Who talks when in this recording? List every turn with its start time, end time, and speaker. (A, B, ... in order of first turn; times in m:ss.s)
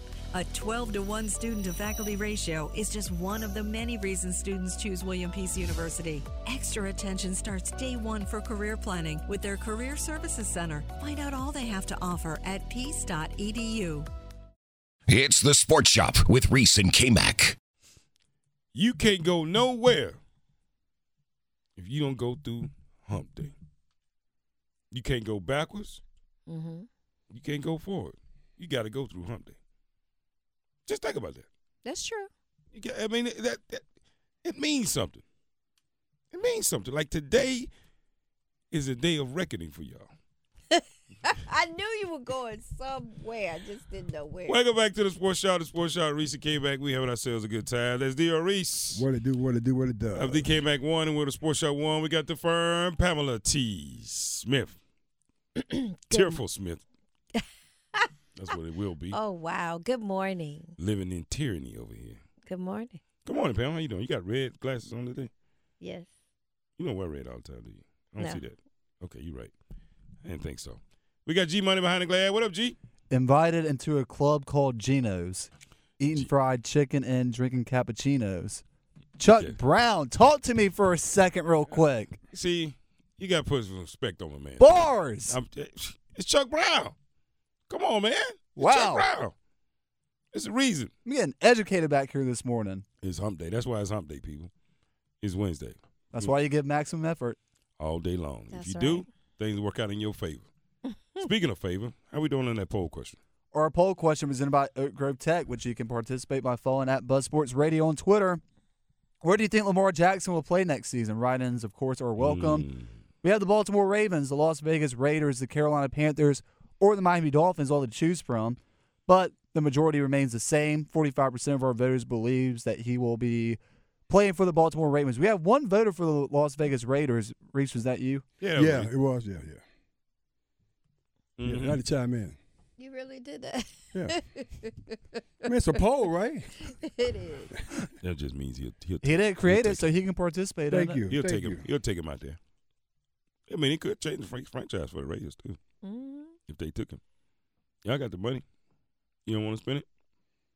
0:00.3-0:14.1 A
0:15.1-0:17.6 B
0:18.7-0:20.2 C
0:21.8-0:23.5 C
0:24.9-0:26.0 C
0:26.5-0:26.9 D
0:27.3-0:29.6 C
0:30.8-0:31.4 C
0:31.8-0:32.3 D
0:32.7-0:33.8 C
0:34.4-0:35.2 C
0:36.3-0:37.7 C
0:38.7-0:40.1 C
0:40.7-0:44.6 D
0:44.4-0:49.0 C
0:48.9-0:50.5 E
0:50.1-0:54.8 C
0:55.6-0:56.4 D
0:56.1-0:56.8 C
0:58.3-0:59.2 C
0:59.1-1:00.7 D
1:00.8-1:02.2 C
1:02.4-1:03.0 D
1:03.2-1:05.3 C
1:05.8-1:06.1 D
1:06.8-1:09.5 C
1:08.2-1:08.4 D
1:10.2-1:12.8 C
1:13.1-1:18.6 F
1:19.2-1:22.2 F
1:19.3-1:19.6 C
1:22.3-1:26.9 C
1:24.6-1:25.4 F
1:27.7-1:29.3 C
1:28.6-1:29.1 F
1:30.3-1:30.9 C
1:31.0-1:32.8 F
1:33.0-1:34.5 C
1:35.2-1:36.3 C
1:36.1-1:37.4 F
1:37.8-1:40.5 C
1:38.5-1:39.0 D
1:41.2-1:43.2 C
1:43.5-1:48.4 F
1:49.2-1:52.7 F
1:52.2-1:52.9 C
1:53.2-2:08.2 F
2:08.4-2:08.9 C
2:08.6-2:09.6 E
2:11.4-2:11.8 C
2:11.4-2:12.4 E
2:12.8-2:15.5 D
2:15.4-2:16.5 E
2:16.6-2:17.6 D
2:18.0-2:19.9 C
2:19.0-2:21.0 F
2:20.7-2:21.6 E
2:21.1-2:22.4 C
2:23.5-2:25.6 C
2:25.8-2:26.3 D
2:26.5-2:27.0 C
2:27.8-2:28.4 C
2:29.2-2:29.8 C